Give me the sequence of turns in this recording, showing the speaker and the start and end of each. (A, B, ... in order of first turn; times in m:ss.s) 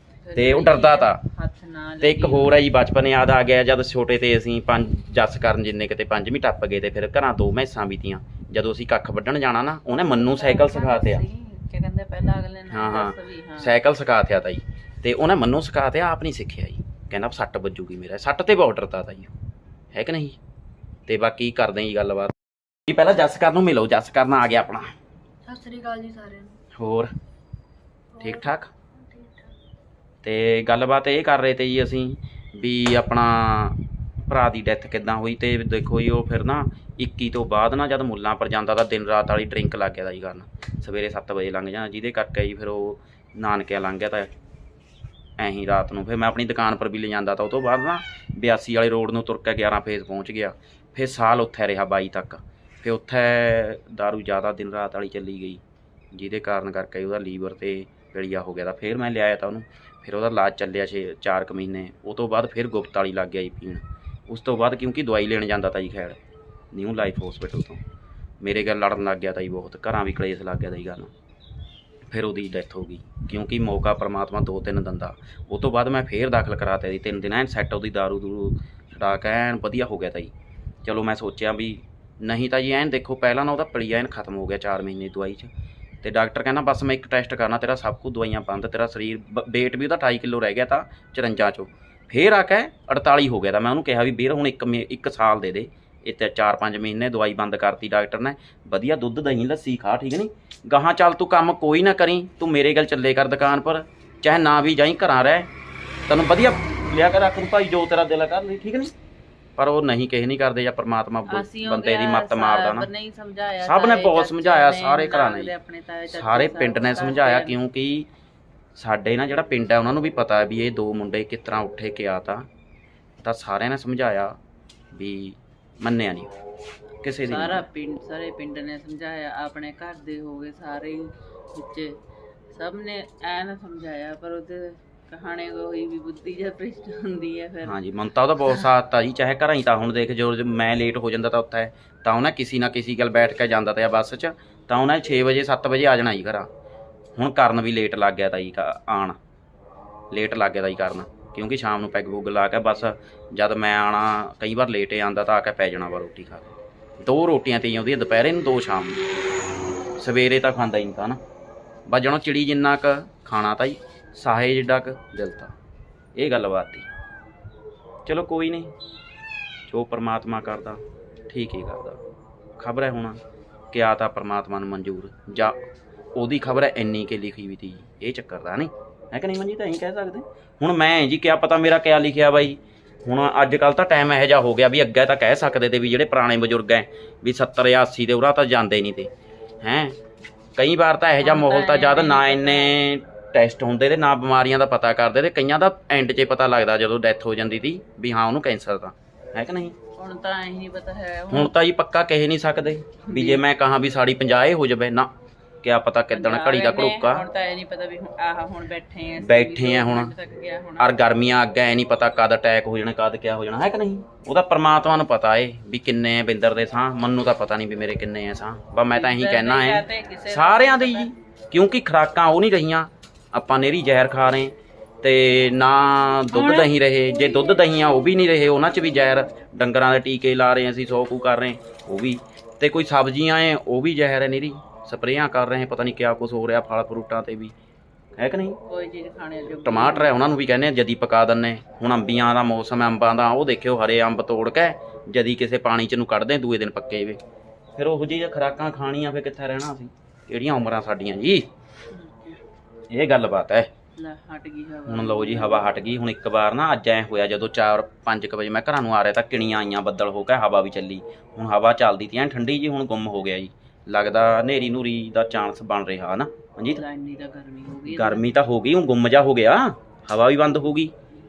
0:00.2-0:02.6 A
0:00.3-0:01.2 B
0:02.0-0:11.2 B
0:09.9-0:13.8 A
0:12.7-0:19.3 B
0:19.9-0:20.4 B
0:21.1-0:22.3 B
0:22.9-0:24.9 B
0:25.4-0:26.5 C
0:26.7-0:27.1 B
0:28.1-0:28.4 C
0:28.2-0:28.7 B
0:28.9-0:29.5 C
0:30.2-0:44.3 B
0:45.4-0:55.6 B
0:56.1-1:06.2 B
1:06.7-1:07.8 B
1:08.4-1:11.1 B
1:12.1-1:20.3 B
1:20.8-1:25.5 B
1:26.0-1:45.5 B
1:46.1-1:48.9 B
1:49.6-1:52.9 B
1:51.3-1:57.6 A
1:53.6-1:55.5 B
1:56.1-1:58.1 B
1:58.8-2:02.5 B
2:03.2-2:04.4 B
2:04.9-2:06.3 B
2:07.0-2:07.6 B
2:07.2-2:12.0 A
2:12.5-2:17.8 A
2:17.6-2:26.5 B
2:27.2-2:29.2 B
2:30.1-2:39.0 B
2:40.0-2:41.2 B
2:41.9-2:45.5 B
2:46.2-2:46.9 B
2:48.0-2:48.7 B
2:49.7-2:52.0 B
2:52.6-2:53.2 B
2:53.7-2:55.6 B
2:56.1-3:09.1 B
3:09.6-3:10.0 B
3:10.6-3:19.8 B
3:11.2-3:12.8 A
3:20.0-3:21.5 A
3:21.3-3:25.1 B
3:23.1-3:23.4 A
3:25.6-3:27.2 B
3:26.1-3:31.0 A
3:29.2-3:30.1 B
3:30.8-3:57.5 B
3:38.9-3:41.1 A
3:46.3-3:46.7 A
3:47.3-3:47.6 A
3:58.2-3:58.6 B
3:58.7-4:00.2 A
3:59.6-4:07.2 B
4:07.8-4:11.5 B
4:11.9-4:12.4 A
4:12.9-4:13.7 B
4:13.9-4:15.8 A
4:14.9-4:26.8 B
4:26.7-4:28.3 A
4:27.9-4:30.9 B